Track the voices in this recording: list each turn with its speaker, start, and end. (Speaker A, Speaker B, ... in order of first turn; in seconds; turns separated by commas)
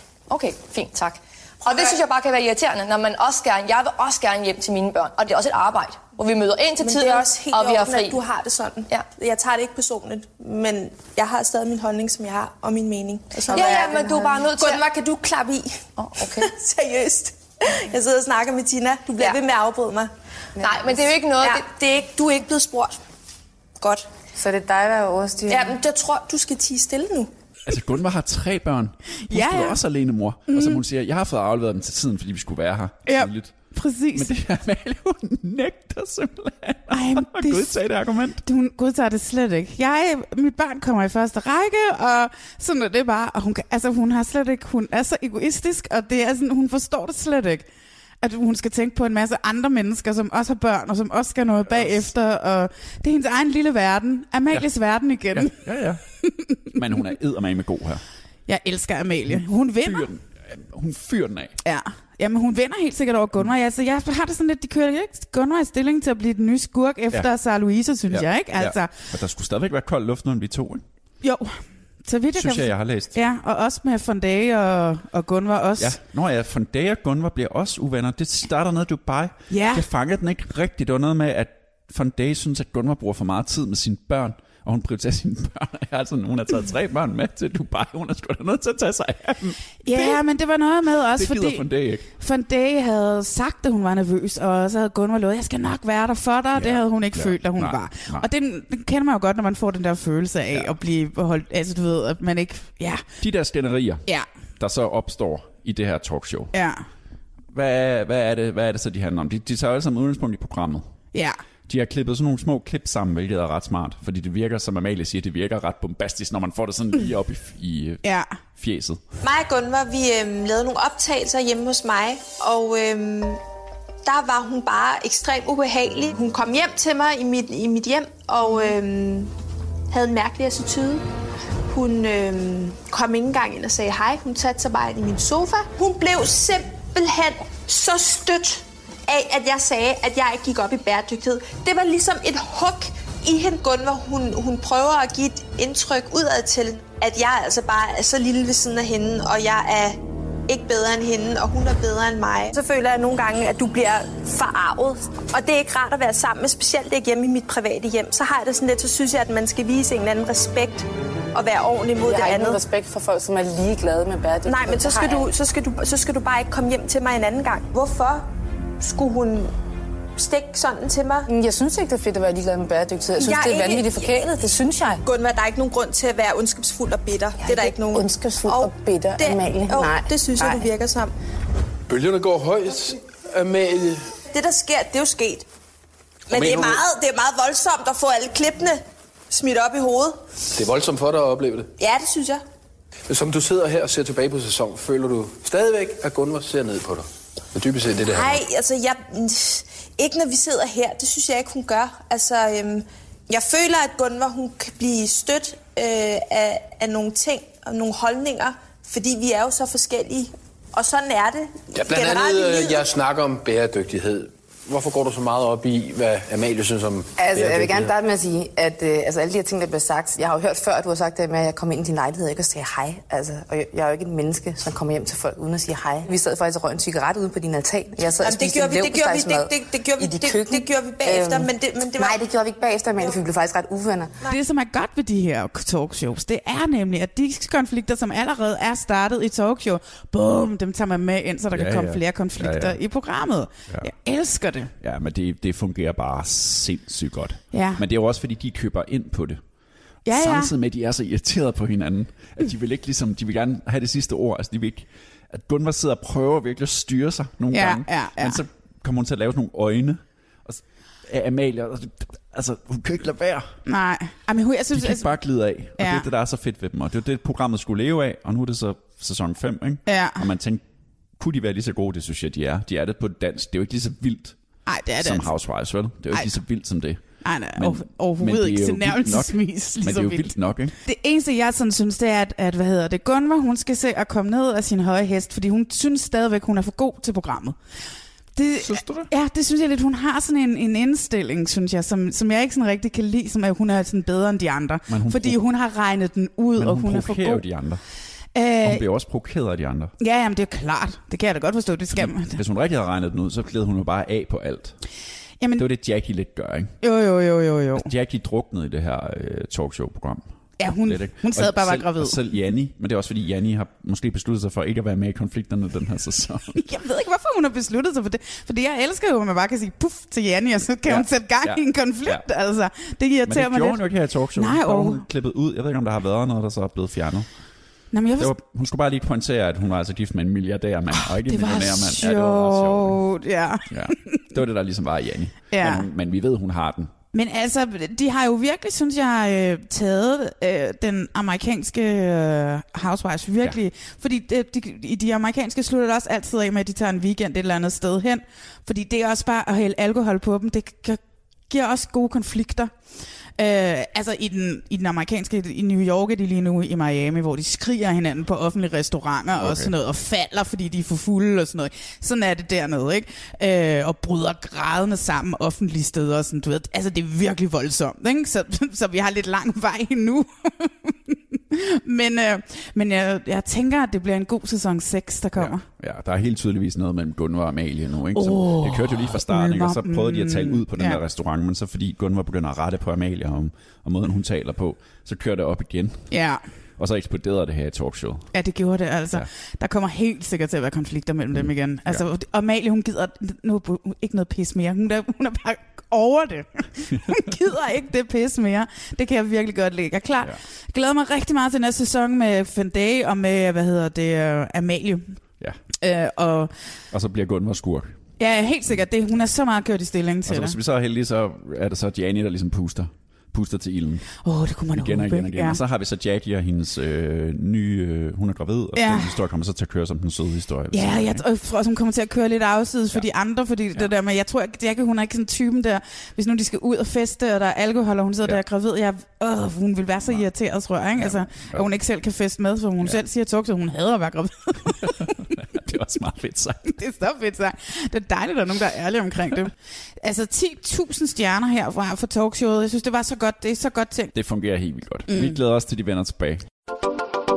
Speaker A: 0.3-8.2, Speaker B: 1.6-1.9, Speaker B: 6.8-20.1, Speaker A: 13.4-15.0, Speaker A: 16.0-16.5, Speaker A: 20.6-21.9, Speaker B: 20.7-22.9, Speaker A: 23.8-24.1, Speaker C: 24.4-25.7, Speaker B: 25.5-27.3, Speaker D: 27.6-33.5, Speaker E: 29.3-29.8, Speaker E: 30.5-30.8, Speaker E: 33.0-34.4, Speaker D: 34.1-38.4, Speaker E: 36.9-37.8, Speaker E: 38.4-47.6, Speaker E: 48.2-55.5, Speaker D: 51.7-52.1, Speaker D: 55.3-56.0, Speaker D: 56.7-58.0, Speaker E: 58.5-60.0, Speaker D: 59.3-61.6, Speaker E: 61.6-68.9, Speaker D: 68.1-70.8, Speaker E: 71.2-76.0, Speaker D: 72.3-73.2, Speaker D: 75.8-90.2, Speaker E: 79.5-79.8, Speaker E: 89.8-91.7, Speaker D: 91.1-92.0, Speaker E: 92.2-103.0, Speaker D: 96.5-98.3, Speaker D: 103.2-104.0, Speaker D: 104.6-106.5, Speaker E: 106.5-106.8, Speaker D: 107.5-110.8, Speaker E: 111.1-111.4, Speaker D: 111.7-118.0, Speaker E: 118.0-118.3, Speaker D: 118.5-119.0, Speaker B: 119.2-123.4, Speaker B: 124.0-129.3, Speaker B: 129.9-131.0, Speaker B: 131.7-162.6, Speaker C: 162.0-165.3, Speaker B: 164.5-168.3, Speaker B: 168.8-169.5, Speaker B: 170.2-171.3, Speaker C: 171.3-175.0, Speaker B: 173.2-174.2, Speaker B: 175.0-181.1, Speaker C: 177.4-180.7, Speaker F: 181.9-184.0, Speaker B: 184.3-185.4, Speaker B: 186.3-190.2, Speaker F: 186.3-186.8, Speaker F: 190.5-191.7, Speaker B: 191.8-192.4, Speaker F: 193.1-198.4, Speaker B: 198.0-212.8, Speaker F: 211.7-217.9, Speaker C: 217.2-234.1, Speaker B: 228.2-232.2, Speaker E: 234.3-244.7, Speaker D: 241.5-242.8, Speaker D: 244.8-249.4, Speaker E: 247.5-247.8, Speaker E: 250.1-250.5, Speaker D: 250.1-263.5, Speaker E: 257.5-258.4, Speaker E: 263.6-265.1, Speaker D: 264.7-270.6, Speaker E: 265.8-266.0, Speaker E: 269.9-270.2, Speaker D: 271.2-274.4, Speaker E: 274.7-275.3, Speaker D: 275.0-277.0, Speaker E: 277.2-280.3, Speaker D: 277.6-280.7, Speaker E: 280.8-287.5, Speaker E: 288.4-297.4, Speaker D: 288.6-289.1, Speaker D: 294.9-295.4, Speaker D: 296.6-297.8, Speaker E: 298.3-298.9, Speaker D: 298.6-299.9, Speaker E: 300.0-302.4, Speaker D: 301.9-304.8, Speaker D: 305.6-306.7, Speaker E: 306.8-307.9, Speaker D: 307.7-310.2, Speaker E: 310.6-312.2, Speaker D: 310.9-316.5, Speaker E: 316.5-323.8, Speaker D: 320.9-322.2, Speaker D: 323.2-327.3, Speaker E: 324.4-325.0, Speaker E: 327.9-328.3, Speaker D: 328.2-333.0, Speaker E: 330.9-334.2, Speaker D: 333.7-336.9, Speaker E: 335.5-335.9, Speaker E: 337.1-352.7, Speaker E: 353.4-375.6, Speaker D: 359.4-359.7, Speaker D: 375.4-386.1, Speaker E: 378.1-381.0, Speaker E: 386.1-386.4, Speaker D: 386.8-388.3, Speaker E: 388.3-405.2, Speaker E: 405.8-406.5, Speaker D: 406.9-407.9, Speaker E: 408.2-410.6, Speaker D: 410.2-414.0, Speaker E: 414.2-415.6, Speaker D: 414.7-421.2, Speaker E: 418.8-419.1, Speaker E: 420.7-435.1, Speaker D: 431.0-431.6, Speaker D: 434.8-436.7, Speaker E: 436.7-444.1, Speaker D: 444.1-446.4, Speaker E: 445.1-445.3